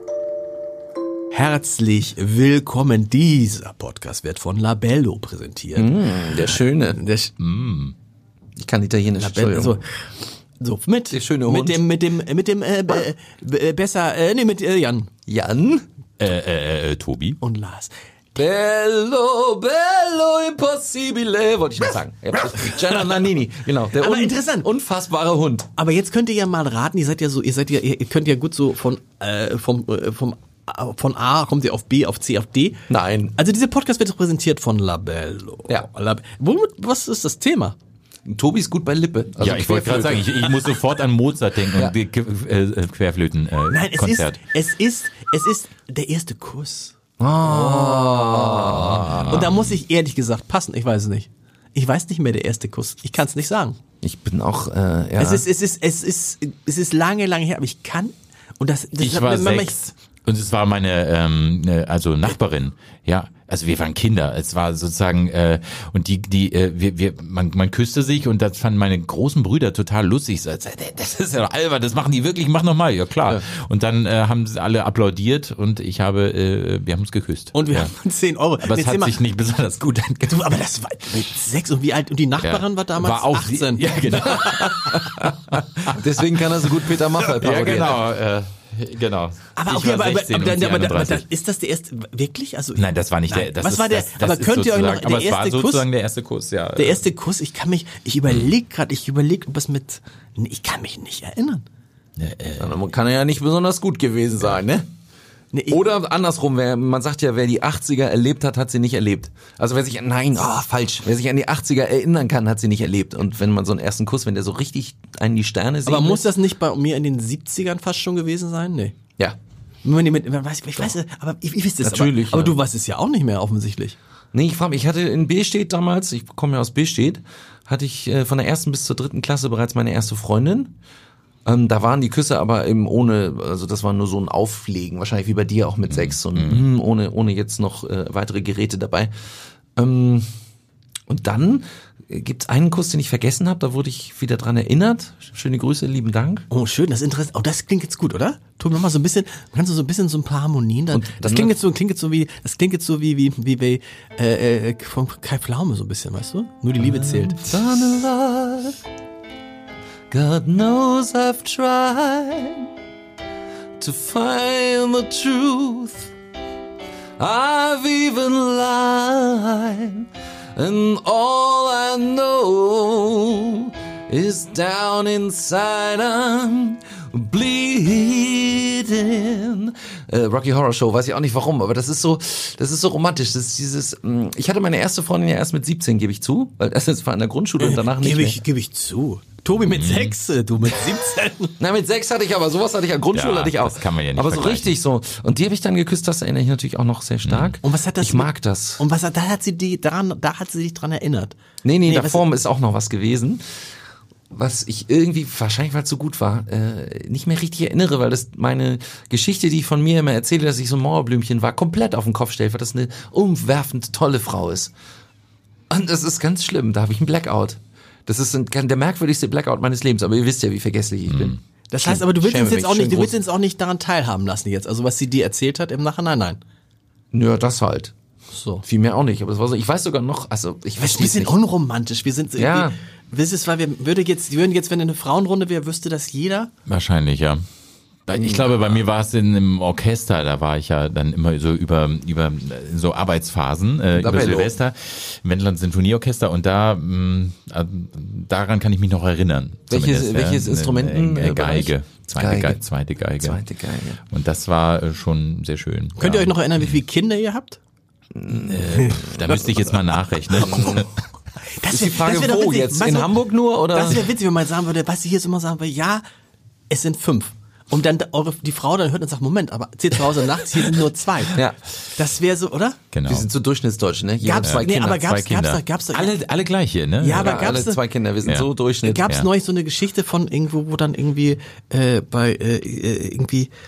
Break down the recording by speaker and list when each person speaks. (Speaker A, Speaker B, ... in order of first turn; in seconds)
Speaker A: 1.3-7.3, 9.2-10.1, 10.6-15.1, 17.4-17.9, 23.9-24.7, 25.8-32.8, 33.4-37.8, 43.7-53.8, 55.2-59.9, 77.5-79.2, 80.3-84.3, 89.6-95.9, 96.8-101.7, 105.5-105.8, 115.9-119.0, 119.8-124.0, 146.5-157.4, 187.6-191.6, 197.6-202.2, 221.7-226.4, 228.3-228.6, 230.8-236.5, 256.0-257.6, 261.5-263.2, 263.7-266.0, 266.7-272.8, 274.2-276.2, 277.0-277.8, 278.8-283.5
Speaker B: 5.8-7.0, 8.6-9.8, 11.1-11.8, 15.3-15.8, 18.4-25.7, 32.9-33.3, 38.2-40.4, 47.2-49.4, 54.0-55.5, 86.0-88.0, 102.6-104.9, 105.7-116.3, 121.8-122.6, 124.3-130.7, 131.5-139.1, 139.8-140.2, 141.1-146.5, 150.9-151.6, 156.8-158.8, 160.1-162.7, 163.8-166.1, 167.2-188.4, 191.6-198.8, 201.6-203.4, 204.3-214.7, 215.7-223.2, 227.1-227.9, 228.6-231.4, 232.4-232.8, 238.2-238.5, 244.0-244.5, 249.7-252.6, 253.2-254.0, 258.1-259.1, 260.4-260.9, 261.7-264.1, 271.3-271.6, 273.1-275.0, 277.1-279.1
Speaker C: 7.4-8.0, 16.2-17.4, 39.4-44.4, 48.8-49.6, 59.0-77.9, 78.6-80.5, 82.4-86.0, 87.4-91.2, 92.8-97.0, 102.2-102.7, 135.9-136.6, 189.6-190.2, 193.1-194.8, 197.2-197.5, 221.1-221.4, 236.7-237.4, 238.1-253.4, 254.1-256.8, 258.5-260.9, 272.9-273.3, 274.4-277.5, 278.2-278.5